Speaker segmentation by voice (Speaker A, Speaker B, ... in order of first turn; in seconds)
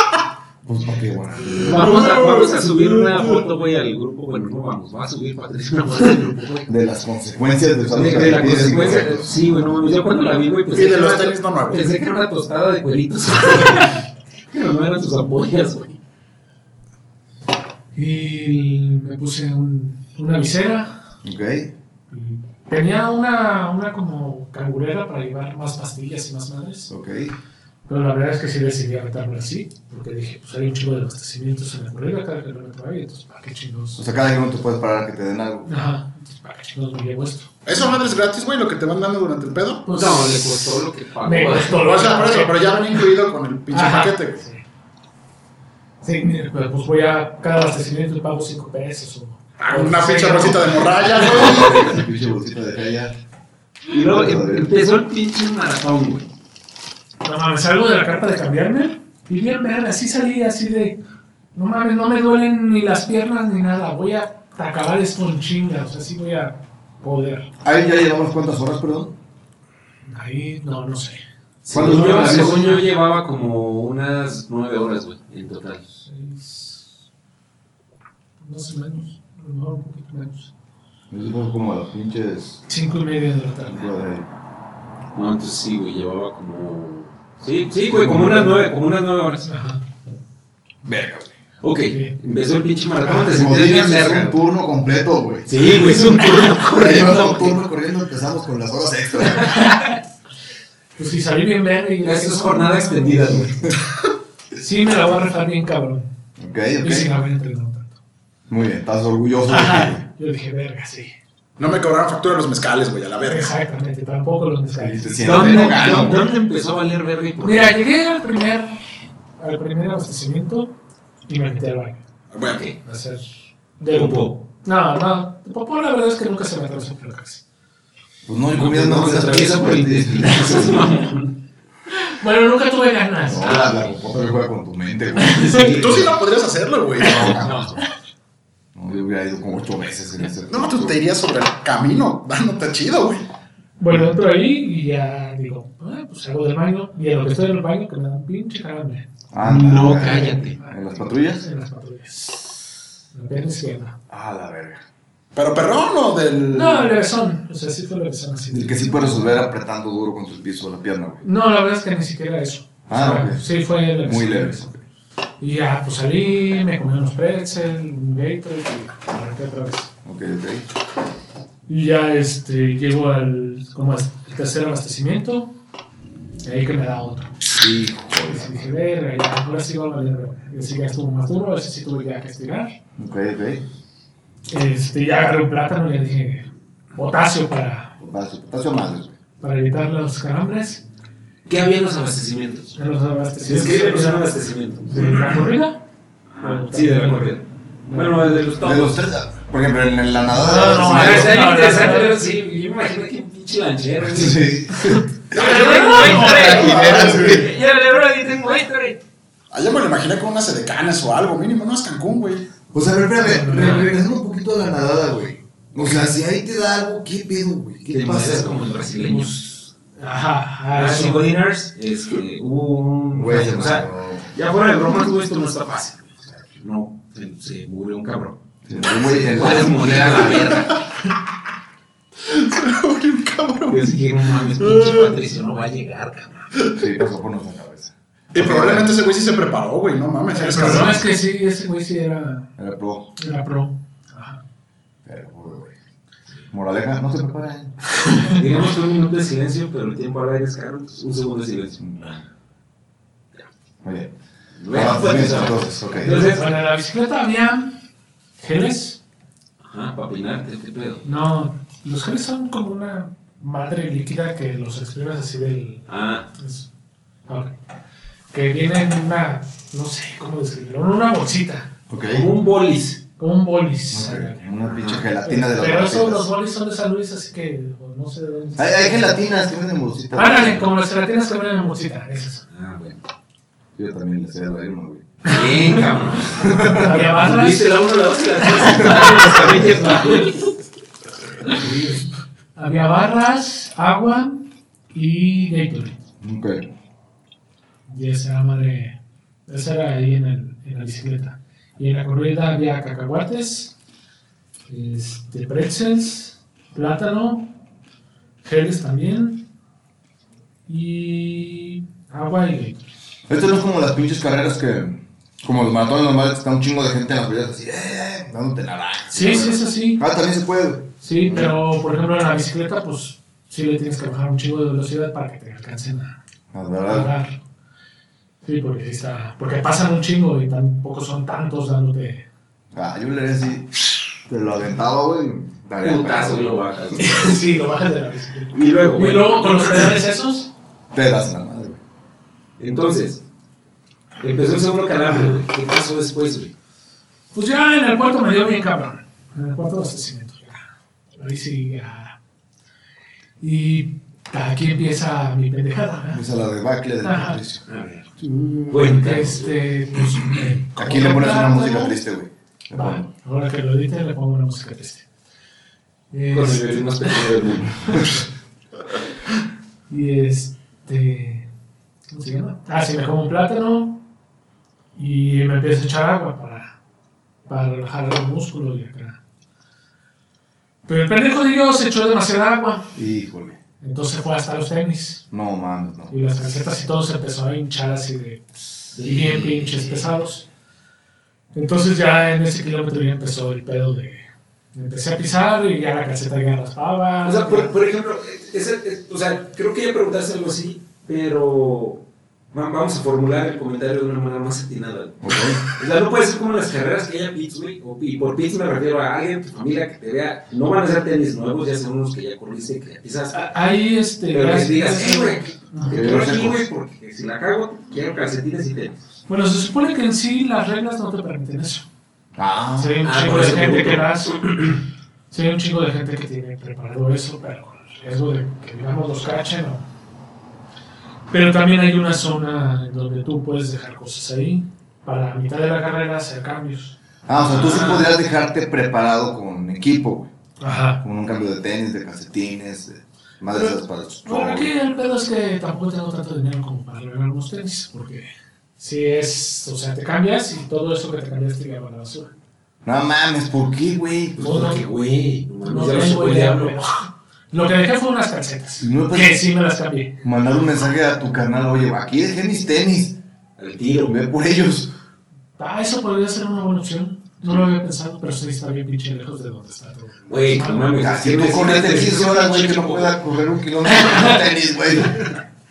Speaker A: 0.7-2.1, 6.7-9.5, 21.2-21.7, 26.9-27.3, 34.0-35.7, 51.2-53.1, 54.0-54.7, 67.6-69.2, 71.7-72.7, 81.1-82.6, 83.7-84.3, 87.9-88.6, 90.8-91.3, 93.2-95.8, 96.6-99.7, 106.4-107.1, 108.5-110.0, 114.8-116.3, 128.3-130.9, 133.2-136.1, 137.0-137.8, 138.8-141.0, 149.3-151.4, 154.1-154.8, 158.5-161.2, 162.9-164.8, 170.0-170.7, 177.6-178.8, 183.0-183.6, 188.0-189.2, 198.6-201.5, 204.1-205.1, 206.1-207.5, 212.7-218.7, 223.1-224.3, 228.7-230.7, 236.8-238.9, 242.6-243.1, 245.1-245.7, 246.5-247.8, 251.8-252.2, 253.8-254.1, 254.7-256.4, 271.9-272.3, 273.9-276.3, 278.6-280.7, 283.8-285.2, 286.4-287.0, 296.2-296.7, 313.3-321.6, 326.5-327.1, 332.7-336.6, 340.9-341.8, 356.1-357.6, 360.8-363.1, 382.9-383.6, 385.3-386.1, 405.2-405.6, 415.9-416.7, 422.4-423.1, 437.3-440.3, 441.0-444.7, 452.9-454.6, 458.8-459.4, 460.2-463.2, 464.1-464.9, 471.0-475.4
Speaker B: 1.6-6.7, 7.9-16.0, 39.9-41.9, 53.9-56.3, 71.7-75.8, 85.2-89.5, 91.6-94.4, 95.5-97.6, 102.0-103.5, 115.2-117.8, 122.4-122.8, 123.9-124.3, 128.5-131.3, 133.4-133.9, 135.3-136.1, 137.4-137.7, 149.4-150.6, 191.5-192.8, 193.4-195.4, 196.3-199.0, 200.7-204.5, 205.3-209.0, 213.5-213.9, 217.9-219.4, 220.7-228.4, 228.9-230.8, 233.7-236.5, 248.3-252.2, 254.6-256.5, 259.6-261.1, 265.9-266.3, 272.1-273.0, 274.7-275.1, 282.5-283.0, 285.2-290.5, 335.8-337.4, 338.5-340.0, 342.6-343.2, 344.2-346.5, 357.7-359.6, 366.3-368.1, 388.9-390.1, 397.2-402.0, 402.5-413.4, 414.3-419.1, 423.0-424.3, 437.4-438.1, 454.4-456.8, 463.6-464.2, 470.3-473.2
Speaker C: 1.7-3.4, 10.7-11.9, 37.7-39.9, 41.7-44.4, 49.6-51.9, 111.6-113.5, 122.3-122.6, 135.7-137.7, 140.5-143.2, 155.3-156.9, 206.0-207.5, 209.5-212.5, 232.2-235.2, 236.6-236.8, 238.3-241.1
Speaker D: 1.7-2.4, 17.9-21.0, 22.1-26.9, 27.9-34.0, 35.7-37.6, 39.9-43.0, 43.7-44.6, 46.0-51.2, 57.2-61.0, 61.5-67.5, 70.1-72.8, 76.0-76.9, 78.4-80.5, 82.7-83.9, 89.5-89.8, 91.9-92.2, 99.5-100.0, 101.0-103.8, 104.6-106.1, 106.8-108.0, 109.5-111.1, 113.2-116.2, 117.4-118.8, 119.4-120.7, 121.3-122.0, 122.8-127.4, 132.0-133.7, 135.2-135.8, 143.8-152.6, 153.1-154.0, 156.5-159.4, 161.2-164.7, 165.4-169.9, 171.7-175.5, 176.4-177.4, 178.3-182.7, 184.5-188.0, 189.4-190.8, 192.8-194.3, 194.9-195.8, 196.4-198.4, 200.3-202.3, 205.3-207.1, 213.2-213.9, 219.0-221.3, 240.3-242.5, 243.2-244.4, 248.0-248.4, 256.0-257.8, 258.4-259.0, 261.0-266.7, 267.3-267.5, 268.3-271.7, 273.2-274.4, 275.2-279.1, 280.1-282.5, 286.7-287.7, 288.5-290.3, 291.5-296.0, 297.9-303.8, 304.7-307.5, 308.4-309.5, 310.7-312.8, 319.1-320.0, 321.0-326.2, 326.9-327.4, 328.4-332.3, 337.0-340.5, 345.1-345.4, 347.3-352.2, 353.4-356.2, 357.0-357.4, 358.2-362.0, 362.7-365.1, 366.1-367.3, 369.9-371.5, 372.1-374.0, 375.0-376.8, 377.5-379.2, 380.9-383.0, 383.8-385.2, 386.1-390.5, 391.5-397.7, 413.3-416.1, 419.3-421.9, 422.8-429.9, 431.3-437.0, 440.6-441.0, 443.5-452.3, 454.4-454.8, 455.6-460.2, 465.6-471.0